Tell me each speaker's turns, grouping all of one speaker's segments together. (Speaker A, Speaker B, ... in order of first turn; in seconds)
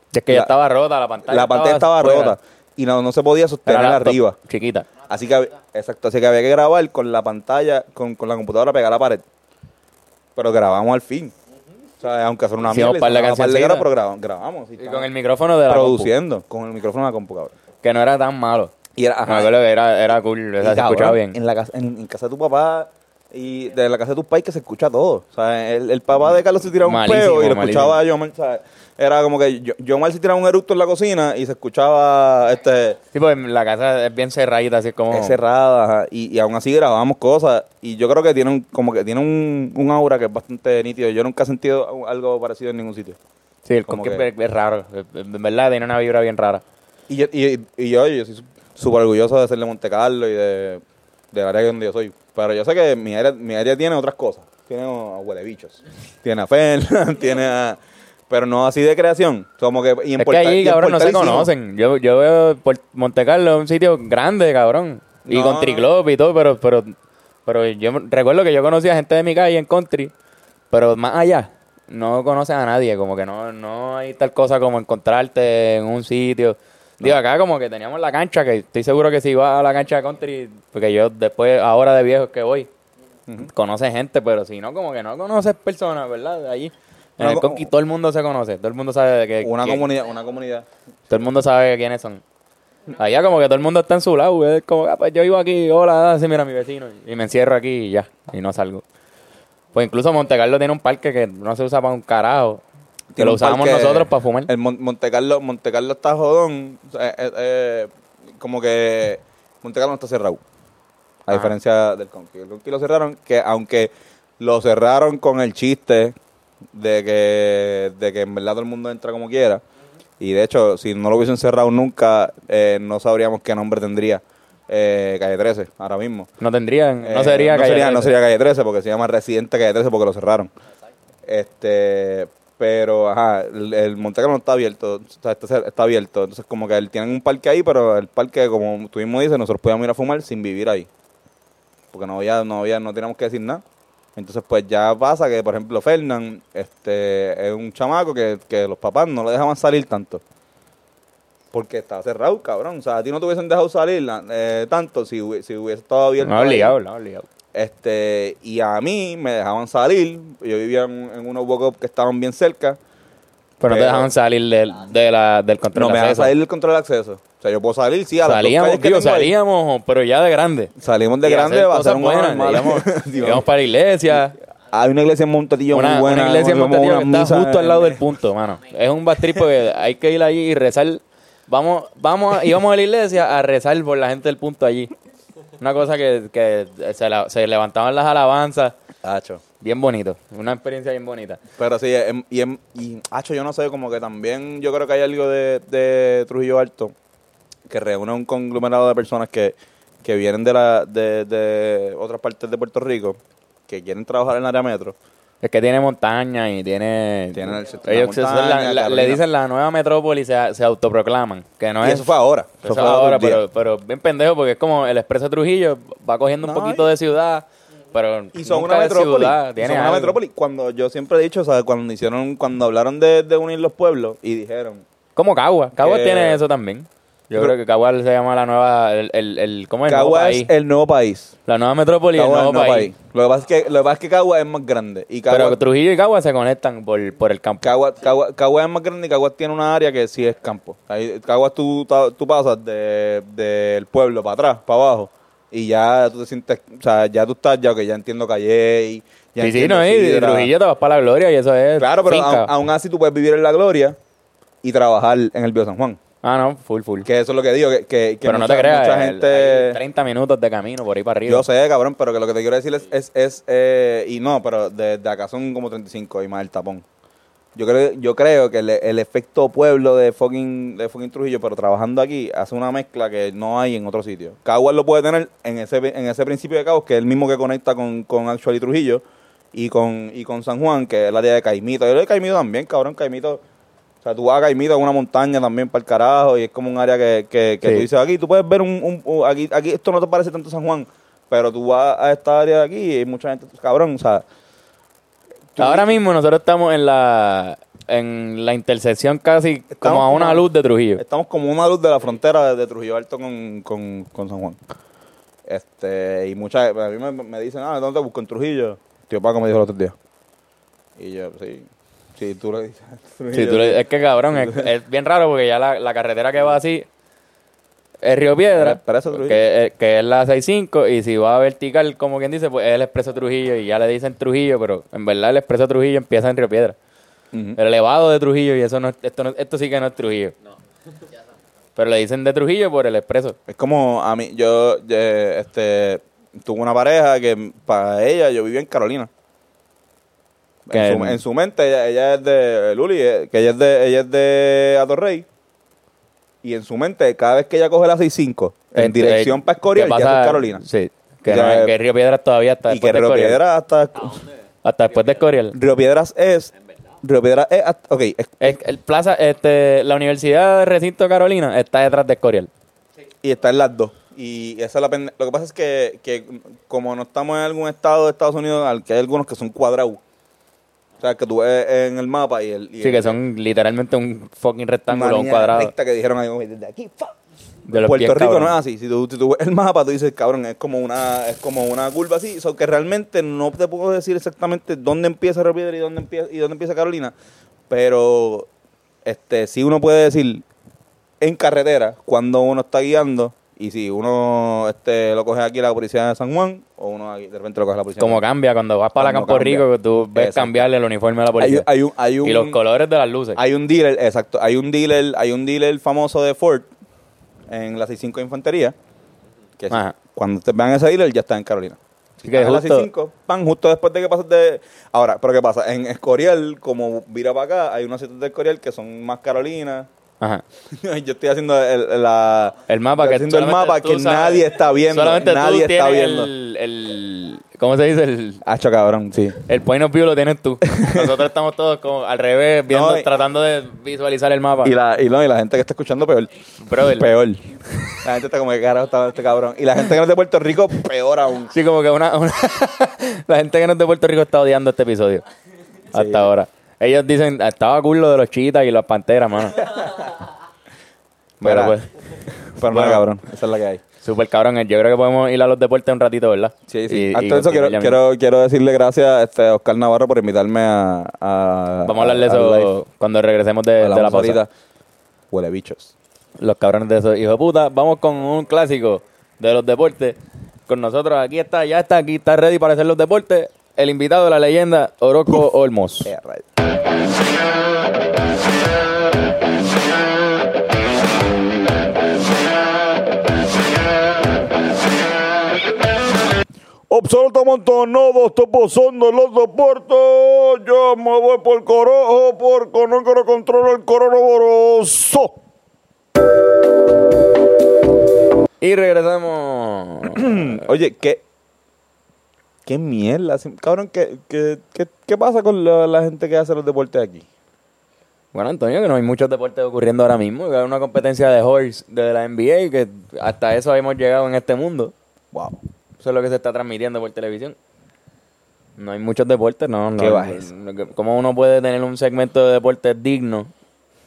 Speaker A: 0.1-2.4, 3.6-4.9, 12.7-13.9, 14.8-16.1, 17.8-18.7, 19.3-21.4, 26.8-28.0, 33.1-35.4, 43.6-46.6, 60.2-66.9, 67.5-70.1, 70.7-82.7, 83.5-89.9, 91.1-92.2, 92.9-98.8, 99.7-102.6, 103.1-104.5, 126.4-128.2, 156.2-157.3, 163.6-166.3, 168.2-170.7, 171.2-174.3, 175.7-184.9, 185.6-188.8, 189.6-191.4, 205.4-212.1, 212.6-220.2, 225.2-230.5, 231.5-232.9, 235.3-237.7, 249.4-252.5, 256.2-257.1, 258.2-261.4, 295.6-301.0, 313.3-316.9, 318.0-326.8, 327.6-330.3, 331.8-333.4, 340.7-341.2, 348.8-353.4, 354.6-355.6, 358.4-362.5, 372.8-375.7, 377.7-378.6, 398.0-401.7, 402.2-403.4, 409.7-409.9, 412.2-412.9, 422.7-428.4, 429.4-434.7, 436.6-437.1, 441.5-445.2, 445.9-449.7, 451.4-451.9, 452.7-453.0, 454.0-458.0, 461.8-464.4, 466.4-476.1, 498.6-500.6, 508.3-514.9, 516.0-517.5, 518.8-523.5
Speaker B: 0.3-0.5, 1.2-4.4, 5.1-9.2, 10.3-11.3, 12.0-15.1, 15.7-17.5, 18.9-19.5, 20.6-33.0, 35.1-43.2, 43.9-44.2, 47.1-61.5, 65.2-65.9, 87.2-87.7, 89.4-91.3, 103.1-110.4, 111.2-116.2, 116.7-119.6, 120.2-126.3, 127.0-130.5, 131.2-140.9, 141.9-143.6, 144.2-150.2, 151.5-156.8, 157.5-162.8, 163.7-164.1, 165.7-169.3, 170.8-173.4, 174.7-178.1, 189.0-189.4, 191.6-196.9, 197.7-204.9, 207.3-209.2, 211.8-213.4, 216.4-216.9, 218.3-224.8, 225.7-226.4, 229.9-231.3, 232.1-235.6, 237.6-250.5, 251.8-254.0, 254.6-256.0, 257.0-259.8, 261.2-266.8, 267.5-283.4, 284.0-294.2, 295.5-295.9, 299.7-304.6, 305.4-309.9, 310.9-314.7, 318.5-319.4, 327.3-327.6, 333.5-339.1, 340.6-345.2, 346.4-350.6, 351.3-351.7, 352.7-354.3, 355.5-358.6, 363.2-370.0, 371.0-373.2, 374.9-377.1, 377.7-387.1, 387.7-388.5, 389.0-390.4, 391.2-398.2, 399.0-400.7, 401.4-402.6, 403.4-406.7, 407.5-408.7, 409.6-419.9, 420.7-426.3, 428.4-429.4, 430.7-431.1, 432.7-433.1, 434.6-441.5, 445.9-446.3, 451.4-451.8, 452.5-453.8, 456.7-462.7, 463.8-464.5, 465.3-465.9, 476.0-476.4, 486.9-495.3, 500.1-501.2, 502.6-507.2, 515.3-515.6, 520.0-520.5